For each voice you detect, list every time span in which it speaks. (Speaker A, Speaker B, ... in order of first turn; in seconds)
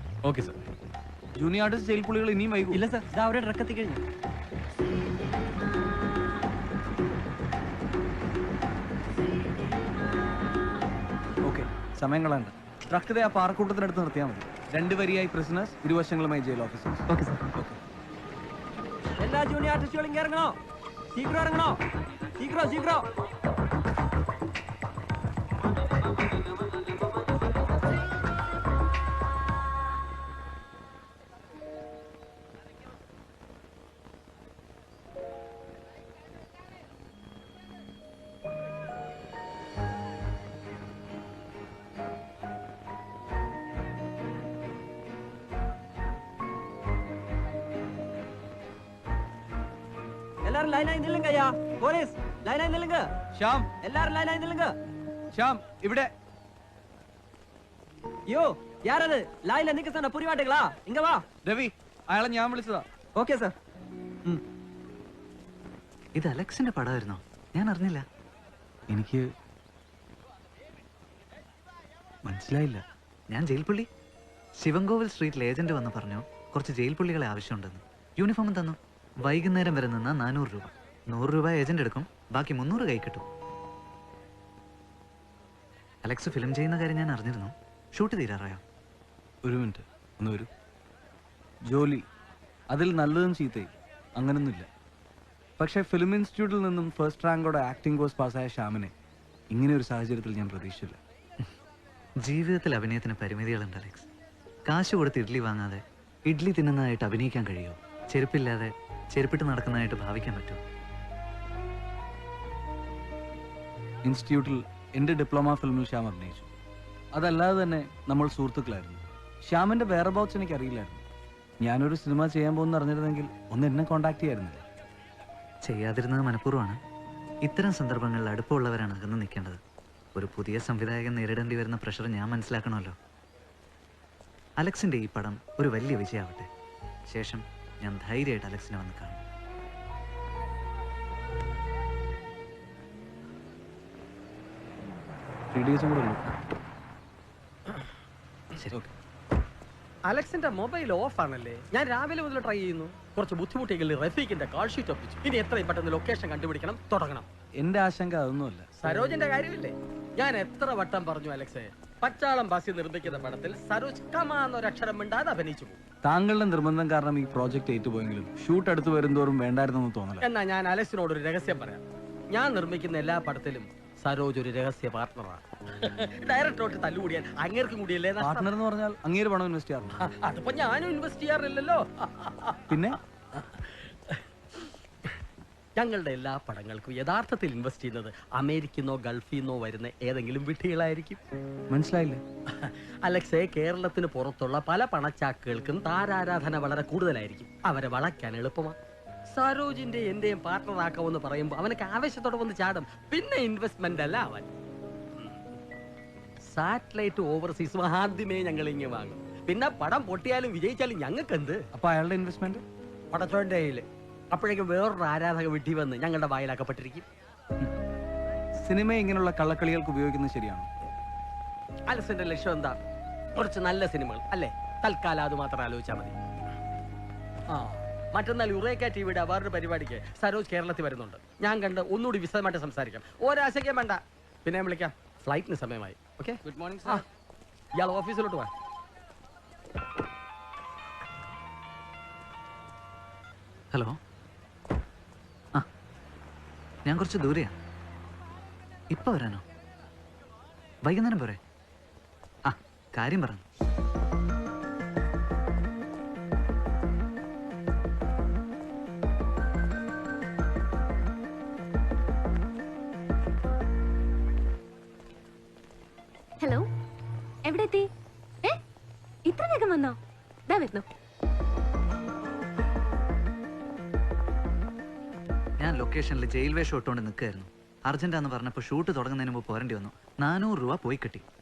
Speaker A: 0.2-0.6, 150.1-157.3, 158.8-165.8, 170.2-178.5, 180.0-182.7, 183.3-184.7, 185.8-191.2, 192.6-198.8, 199.3-204.5, 206.5-211.6, 213.1-217.1, 221.9-222.8, 223.3-226.2, 227.5-237.0, 237.8-238.5
Speaker B: 1.4-2.8, 11.4-17.8, 53.3-53.8, 55.3-56.1, 61.4-62.8, 68.9-69.2, 72.2-72.8, 89.4-90.5, 91.7-92.0, 92.7-94.7, 95.6-98.9, 99.5-101.0, 114.0-116.5, 117.1-121.0, 121.6-124.6, 145.5-146.2, 157.6-158.7, 166.0-170.2, 178.2-179.9, 182.7-183.0, 191.7-192.2, 211.7-212.6, 218.6-220.7
Speaker C: 2.7-4.0, 17.1-17.4, 19.2-20.6, 21.1-21.8, 22.4-23.1, 50.4-53.1, 53.8-54.8, 58.3-61.3, 63.1-63.6
Speaker D: 66.2-68.0, 73.3-73.9, 74.6-83.2, 86.0-88.6, 102.2-104.1, 104.7-110.6, 125.6-126.8, 127.4-129.6, 130.1-132.9, 134.6-136.5, 137.1-139.2, 243.7-244.0, 246.8-247.6, 248.9-249.4, 250.8-251.4, 252.4-253.4, 275.6-281.2
Speaker E: 266.4-266.7, 267.4-267.9, 269.3-270.0, 270.5-270.9